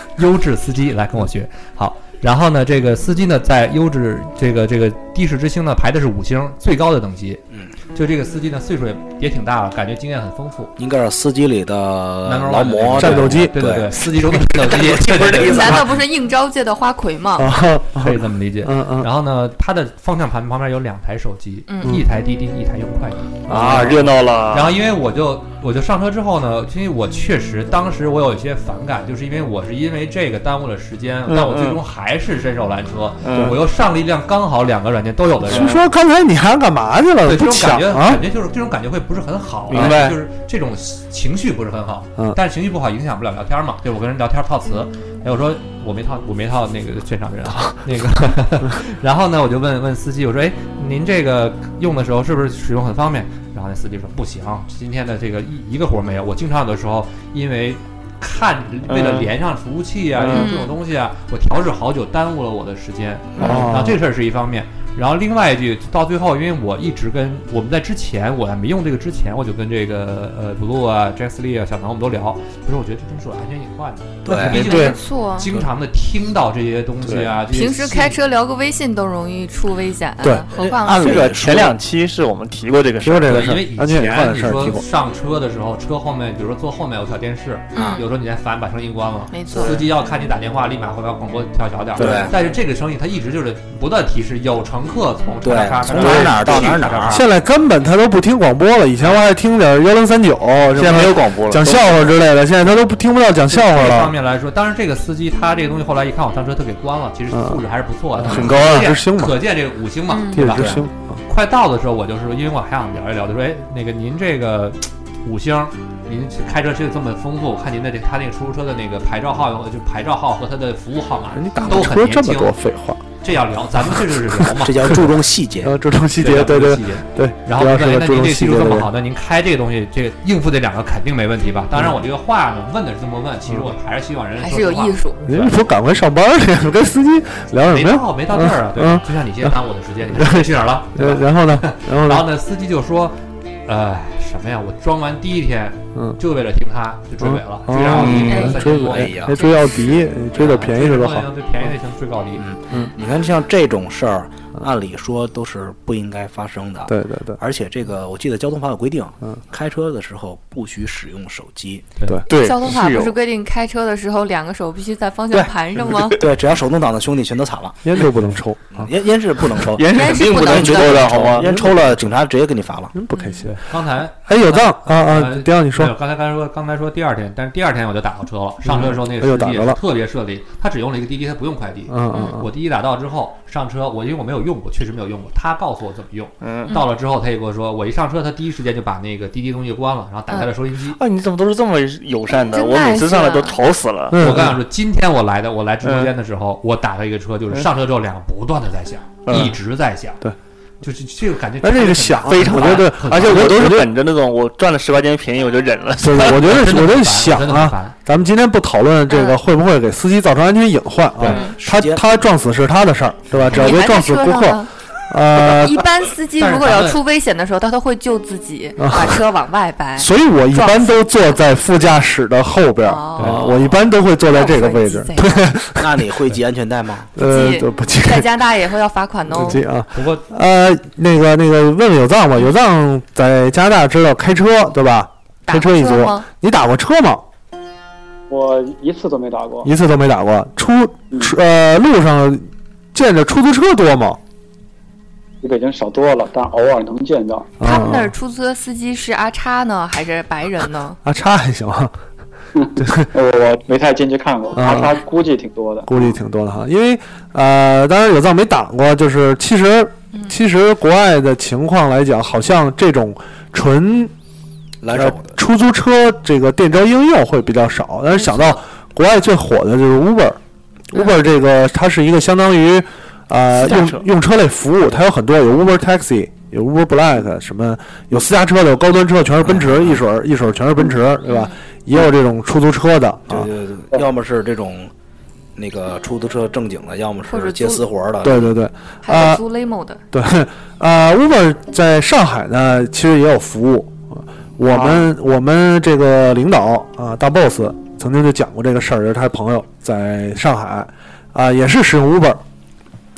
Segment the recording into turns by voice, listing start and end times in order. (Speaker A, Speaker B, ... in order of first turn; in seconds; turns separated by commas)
Speaker A: 0.2-7.4, Speaker A: 8.0-10.7, Speaker B: 10.8-15.9, Speaker A: 12.2-15.8, Speaker C: 13.0-13.6, Speaker D: 15.4-17.5, Speaker C: 17.4-19.1, Speaker A: 18.0-35.8, Speaker D: 21.7-22.0, Speaker C: 23.5-24.1, Speaker E: 23.5-24.8, Speaker E: 31.3-31.8, Speaker E: 33.2-33.6, Speaker E: 35.5-35.8, Speaker C: 35.5-38.2, Speaker A: 37.2-78.2, Speaker E: 39.7-40.2, Speaker C: 39.7-40.0, Speaker E: 58.9-59.3, Speaker E: 60.2-60.4, Speaker D: 60.3-60.8, Speaker E: 63.4-63.7, Speaker C: 63.4-64.0, Speaker B: 74.2-74.8, Speaker D: 74.5-75.5, Speaker C: 74.6-74.9, Speaker D: 77.5-81.3, Speaker C: 80.2-80.5, Speaker B: 80.5-81.8, Speaker E: 80.8-83.6, Speaker C: 83.0-84.8, Speaker A: 83.3-97.2, Speaker D: 87.7-88.1, Speaker B: 87.8-88.0, Speaker D: 89.3-89.8, Speaker E: 89.5-89.9, Speaker B: 92.0-92.3, Speaker B: 95.4-97.2, Speaker C: 96.0-96.5, Speaker C: 97.1-104.1, Speaker E: 100.7-102.0, Speaker A: 103.5-110.7, Speaker C: 107.3-107.6, Speaker C: 108.2-109.4, Speaker E: 108.2-108.9, Speaker D: 110.1-110.6, Speaker C: 110.3-111.2, Speaker B: 110.5-110.8, Speaker A: 111.3-122.5, Speaker C: 121.3-123.0, Speaker A: 123.2-125.0, Speaker C: 123.9-124.2, Speaker B: 124.5-125.7, Speaker C: 125.6-128.9, Speaker A: 126.2-135.6, Speaker D: 134.4-135.2, Speaker C: 135.3-139.5, Speaker A: 137.7-149.2, Speaker C: 140.1-142.3, Speaker C: 147.2-151.3, Speaker E: 147.9-148.5, Speaker D: 148.3-148.6, Speaker B: 148.8-149.3, Speaker D: 149.3-149.8, Speaker A: 150.4-152.5, Speaker B: 152.4-161.9, Speaker C: 156.9-157.4, Speaker D: 162.3-166.2, Speaker E: 162.3-163.2, Speaker B: 166.1-168.0, Speaker C: 167.8-168.9, Speaker B: 168.7-172.9, Speaker E: 169.6-171.6, Speaker D: 169.9-171.3, Speaker C: 171.4-172.2, Speaker C: 172.9-173.6, Speaker D: 173.1-173.5, Speaker A: 173.4-191.0, Speaker C: 174.3-175.9, Speaker C: 178.6-179.8, Speaker C: 181.9-182.5, Speaker D: 182.1-182.4, Speaker E: 186.4-186.8, Speaker E: 190.9-194.4, Speaker D: 192.3-193.6, Speaker C: 194.1-194.6, Speaker A: 194.2-200.2, Speaker E: 195.8-196.1, Speaker E: 199.3-199.6, Speaker A: 200.8-203.6, Speaker C: 201.6-203.9, Speaker E: 202.3-206.6, Speaker C: 206.0-215.9, Speaker A: 206.2-208.0, Speaker D: 209.1-209.4, Speaker D: 211.3-211.6, Speaker B: 211.4-212.0, Speaker D: 213.5-214.7, Speaker D: 215.5-221.1, Speaker A: 216.4-217.0, Speaker C: 218.8-219.2, Speaker C: 220.0-226.1, Speaker D: 222.8-225.6, Speaker A: 223.2-223.5, Speaker B: 225.8-227.2, Speaker C: 227.2-228.3, Speaker D: 227.2-229.6, Speaker C: 229.3-237.2, Speaker A: 229.9-230.3, Speaker D: 235.5-236.3, Speaker F: 238.3-239.7, Speaker C: 239.6-244.2, Speaker F: 245.4-247.6, Speaker D: 247.6-251.0, Speaker C: 247.6-248.2, Speaker C: 251.0-251.9, Speaker F: 252.6-256.1, Speaker C: 252.8-253.1, Speaker C: 254.6-255.0, Speaker C: 255.9-264.1, Speaker B: 264.8-265.4, Speaker C: 264.9-270.4, Speaker D: 268.1-268.6, Speaker C: 270.9-283.5, Speaker E: 273.6-274.0, Speaker B: 279.5-279.8, Speaker D: 281.2-281.6, Speaker B: 283.3-284.9, Speaker B: 285.6-288.5, Speaker D: 287.3-287.9, Speaker C: 288.2-289.4, Speaker D: 289.0-290.0, Speaker C: 290.1-302.4